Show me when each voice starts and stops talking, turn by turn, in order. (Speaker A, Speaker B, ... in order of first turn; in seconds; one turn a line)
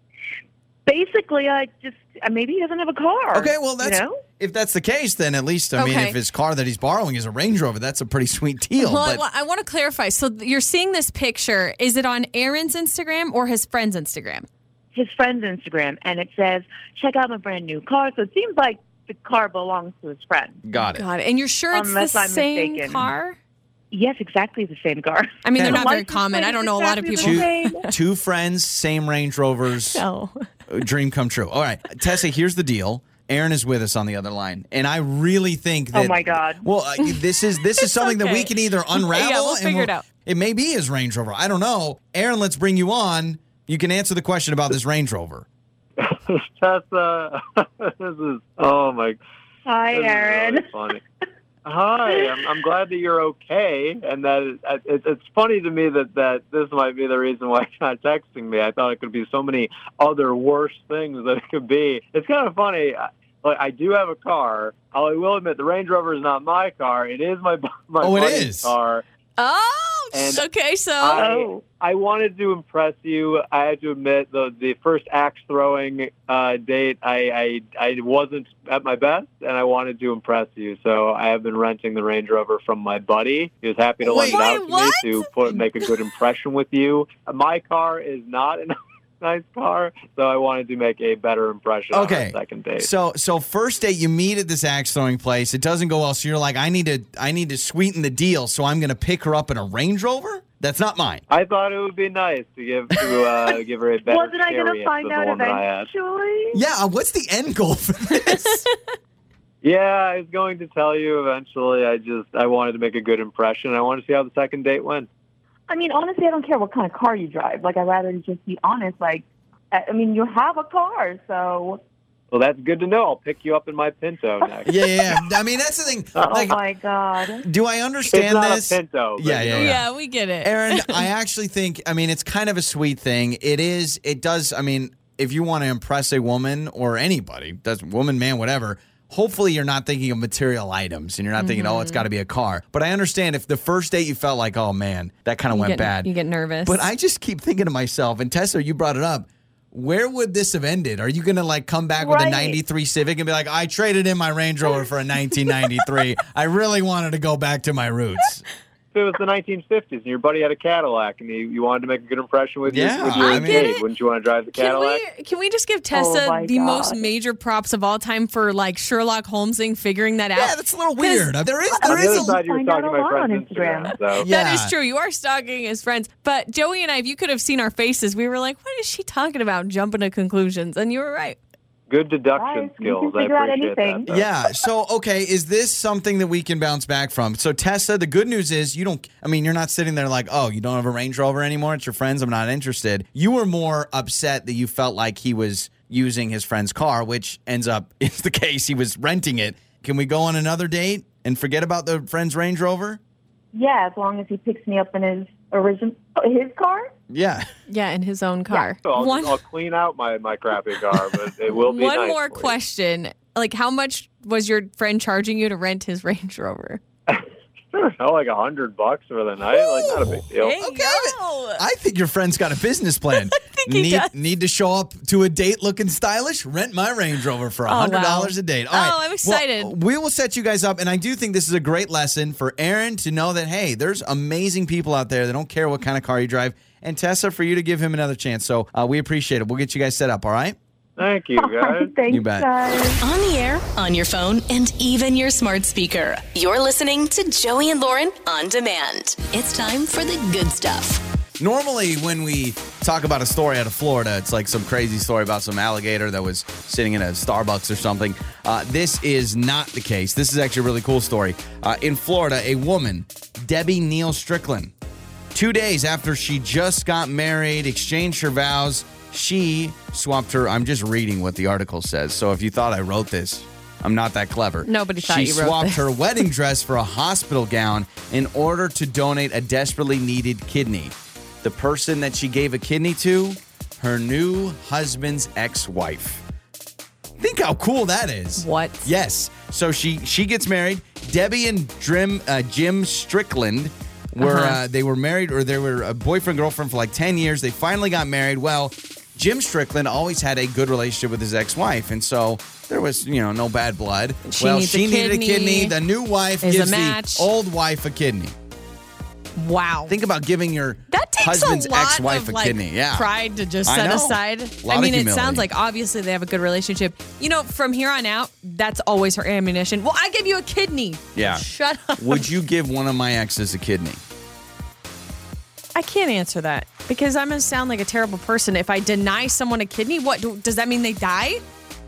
Speaker A: 0.9-4.2
Speaker B: 3.3-9.2
Speaker C: 5.8-6.2
Speaker C: 8.8-14.5
Speaker A: 14.9-20.6
Speaker B: 20.6-21.1
Speaker C: 20.9-23.4
Speaker A: 21.7-23.1
Speaker A: 23.9-27.9
Speaker C: 25.4-27.9
Speaker B: 25.6-25.9
Speaker B: 27.2-30.0
Speaker C: 29.9-30.5
Speaker B: 30.7-45.5
Speaker A: 35.9-36.7
Speaker C: 37.0-40.0
Speaker D: 46.0-49.2
Speaker A: 49.7-50.7
Speaker D: 49.9-51.0
Speaker D: 51.6-69.0
Speaker A: 52.1-52.5
Speaker B: 68.0-68.7
Speaker C: 69.4-71.2
Speaker D: 70.1-70.4
Speaker D: 71.0-92.9
Speaker A: 71.1-71.6
Speaker B: 84.0-84.5
Speaker C: 84.2-85.6
Speaker B: 91.9-101.2
Speaker D: 101.3-105.9
Speaker A: 104.1-106.6
Speaker B: 106.5-108.7
Speaker C: 108.2-108.8
Speaker D: 109.6-115.1
Speaker A: 115.7-121.8
Speaker D: 122.3-124.8
Speaker B: 124.7-126.6
Speaker D: 126.2-126.4
Speaker A: 126.2-127.5
Speaker B: 127.4-129.9
Speaker D: 128.1-129.8
Speaker C: 129.5-131.1
Speaker B: 130.4-146.1
Speaker C: 141.4-142.1
Speaker C: 145.5-146.8
Speaker B: 146.7-158.4
Speaker A: 152.0-152.6
Speaker D: 158.9-165.0
Speaker B: 162.7-163.7
Speaker C: 163.2-163.9
Speaker C: 164.5-171.3
Speaker A: 165.9-167.1
Speaker B: 170.4-172.4
Speaker A: 171.7-174.0
Speaker D: 171.8-174.3
Speaker B: 174.2-174.7
Speaker C: 174.2-181.4
Speaker D: 181.9-184.3
Speaker A: 182.3-184.1
Speaker B: 184.1-203.0
Speaker A: 203.5-206.9
Speaker B: 207.1-207.5
Speaker C: 207.7-209.4
Speaker D: 208.8-212.6
Speaker C: 211.5-216.8
Speaker D: 217.1-220.6
Speaker B: 219.8-240.6
Speaker C: 219.8-221.6
Speaker C: 223.1-224.1
Speaker C: 227.7-229.7
Speaker D: 241.0-241.9
Speaker A: 241.4-243.0
Speaker B: 242.1-242.5
Speaker E: 243.0-251.0
Speaker B: 251.4-264.7
Speaker B: 265.3-286.2
Speaker C: 274.6-276.3
Speaker B: 287.2-308.3
Speaker C: 288.4-288.9
Speaker C: 294.2-294.6
Speaker C: 304.2-305.8
Speaker C: 306.4-307.3
Speaker C: 309.4-309.9
Speaker B: 309.9-313.1
Speaker C: 310.9-322.3
Speaker B: 313.6-315.5
Speaker B: 321.1-321.4
Speaker B: 322.0-324.0
Speaker C: 325.8-331.4